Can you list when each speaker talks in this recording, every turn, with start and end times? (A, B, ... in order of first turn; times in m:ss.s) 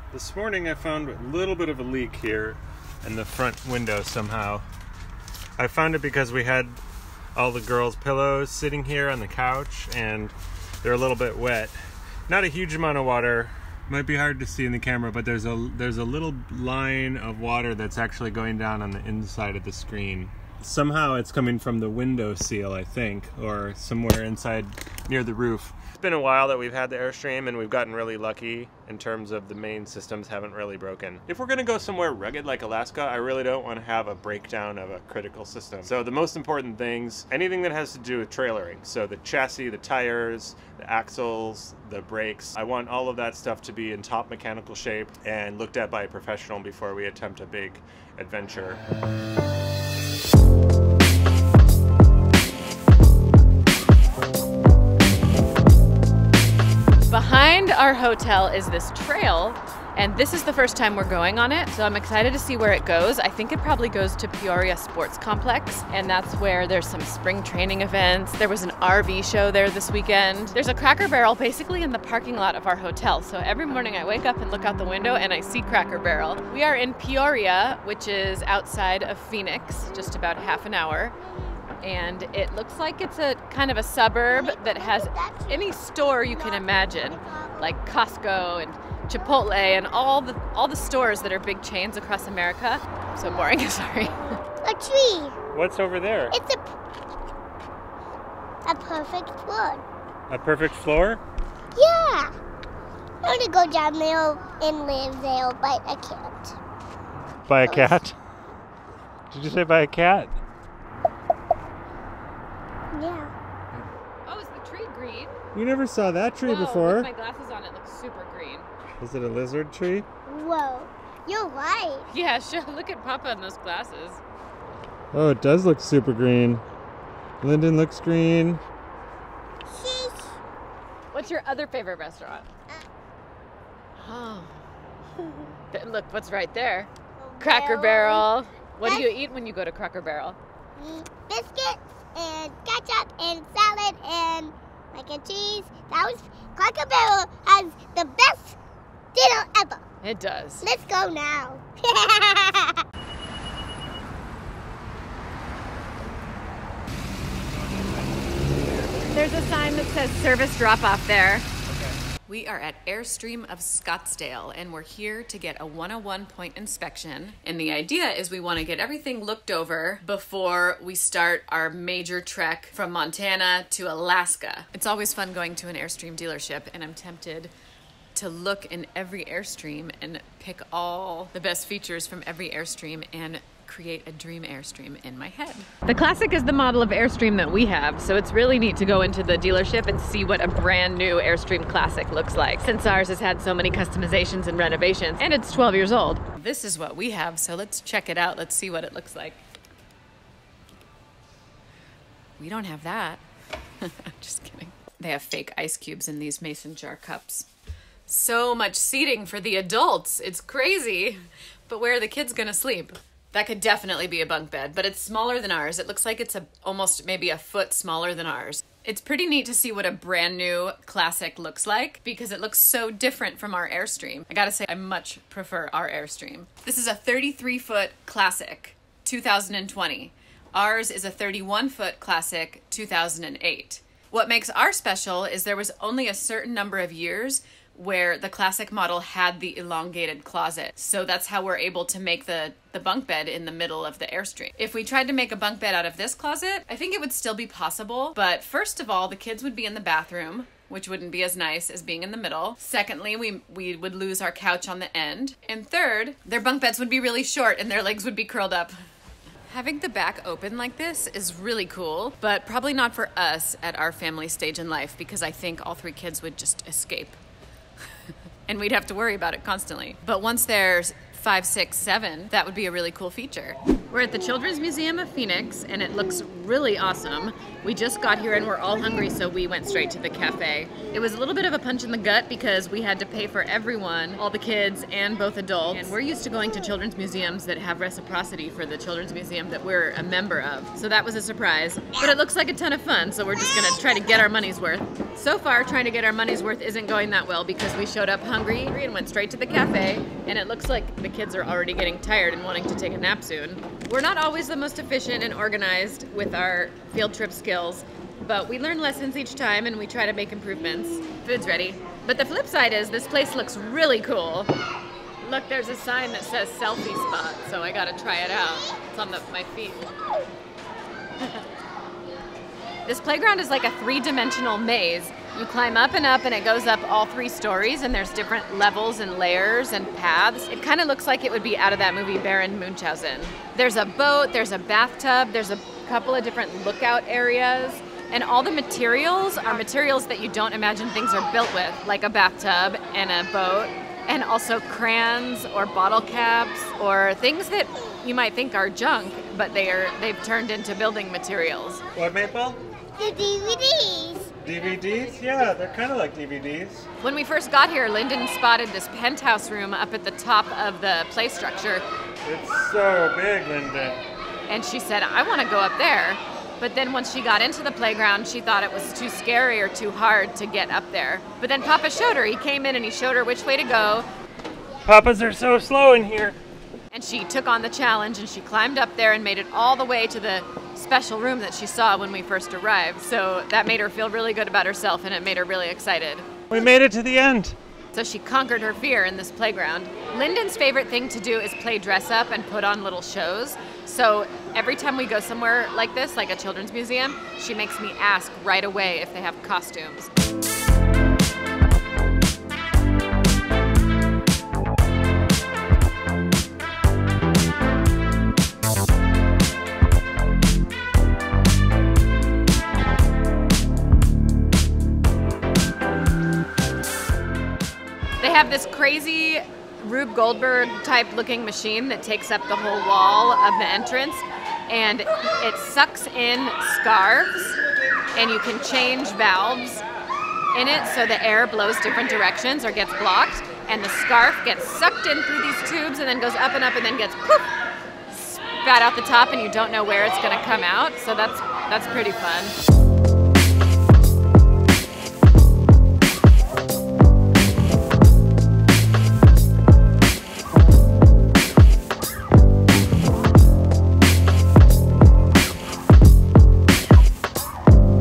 0:00.1-0:04.7 A
0:05.6-0:06.8 A
0:07.4-0:11.8 A
0:12.3-0:48.8 A
0:57.1-1:21.2 B
1:21.3-1:21.6 C
1:21.8-1:34.4 B
1:24.3-1:27.8 C
1:34.6-1:35.4 C
1:35.5-1:36.4 A
1:36.3-1:36.6 C
1:38.6-1:39.8 C
1:40.3-1:41.2 A
1:41.7-1:42.3 C
1:43.2-1:46.6 C
1:47.5-1:48.2 A
1:47.6-1:48.0 C
1:49.3-1:50.4 A
1:52.9-1:53.3 C
1:54.2-1:55.4 B
1:55.5-1:57.1 A
1:56.4-1:58.7 B
1:59.0-2:00.1 A
2:00.3-2:02.1 C
2:02.1-2:04.2 B
2:05.1-2:06.6 A
2:07.4-2:08.6 A
2:09.7-2:10.4 C
2:11.1-2:12.5 B
2:14.0-2:14.6 B
2:15.7-2:20.4 B
2:17.2-2:18.2 C
2:20.8-2:28.6 C
2:29.1-2:29.8 C
2:30.0-2:30.7 B
2:30.6-2:32.8 C
2:38.4-2:39.1 A
2:39.1-2:41.5 B
2:41.7-2:42.0 A
2:42.3-2:57.5 B
2:58.2-3:19.4 B
3:22.4-3:23.2 B
3:23.8-3:27.5 B
3:28.1-4:18.8 B
4:19.5-4:27.2 B
4:28.5-5:14.5 B
5:15.2-5:19.9 B
5:22.9-5:51.8 B
5:51.9-5:52.6 A
5:53.0-5:54.3 C
5:54.4-5:56.9 A
5:57.0-6:01.8 B
6:02.2-6:04.0 A
6:04.5-6:14.1 B
6:14.8-6:16.4 A
6:16.9-6:26.3 B
6:26.5-6:27.6 A
6:27.9-6:40.1 B
6:58.2-7:07.6 B
7:08.1-7:09.8 B
7:10.5-7:17.5 B
7:18.1-7:22.6 B